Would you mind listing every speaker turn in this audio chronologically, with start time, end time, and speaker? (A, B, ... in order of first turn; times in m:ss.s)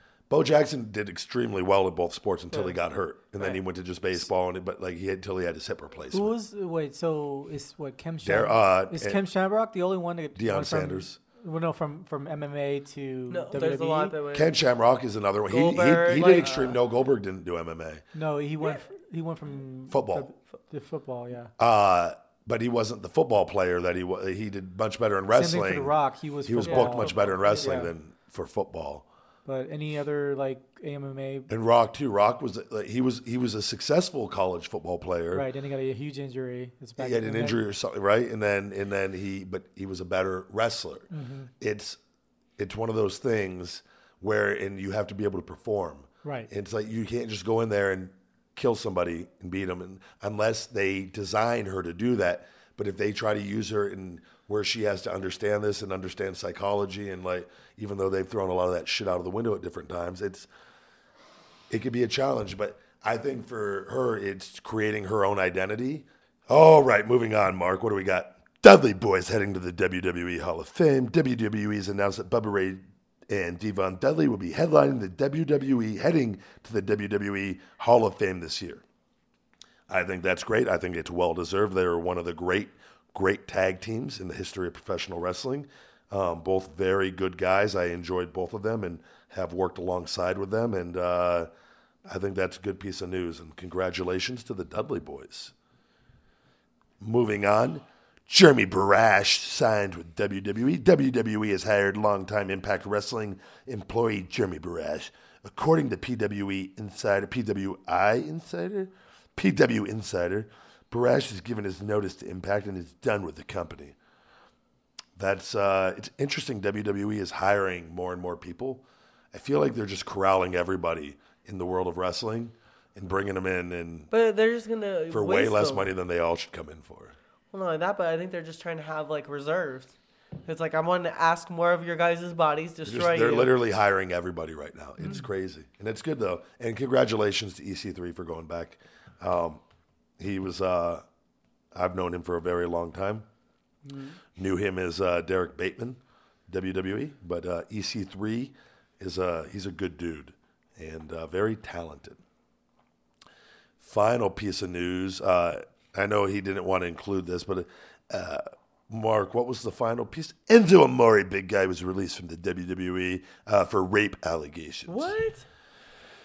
0:00.3-0:06.3 A
0:02.5-0:02.8 B
0:06.1-0:14.1 C
0:08.2-0:09.2 A
0:10.3-0:11.2 A
0:13.3-0:14.6 B
0:14.3-0:18.0 A
0:15.5-0:16.8 B
0:18.1-0:21.5 C
0:19.9-0:20.3 A
0:21.6-0:25.9 A
0:25.3-0:27.9 C
0:26.4-0:29.0 A
0:26.7-0:27.8 B
0:29.4-0:31.5 C
0:31.5-0:35.5 A
0:35.3-0:37.6 C
0:37.0-0:41.1 A
0:41.1-0:41.5 C
0:41.6-0:42.0 A
0:42.6-1:00.5 A
0:46.2-0:46.5 C
1:01.7-1:18.8 A
1:19.9-1:31.5 A
1:32.0-1:35.5 A
1:37.0-1:53.9 A
1:55.2-2:04.1 A
2:04.1-2:05.9 B
2:05.1-2:07.2 A
2:07.5-2:09.9 B
2:10.4-2:13.5 B
2:12.8-2:19.6 A
2:20.2-2:21.0 A
2:21.7-2:23.2 A
2:23.8-2:24.2 B
2:24.4-2:32.2 A
2:33.8-2:45.1 A
2:44.9-2:45.4 B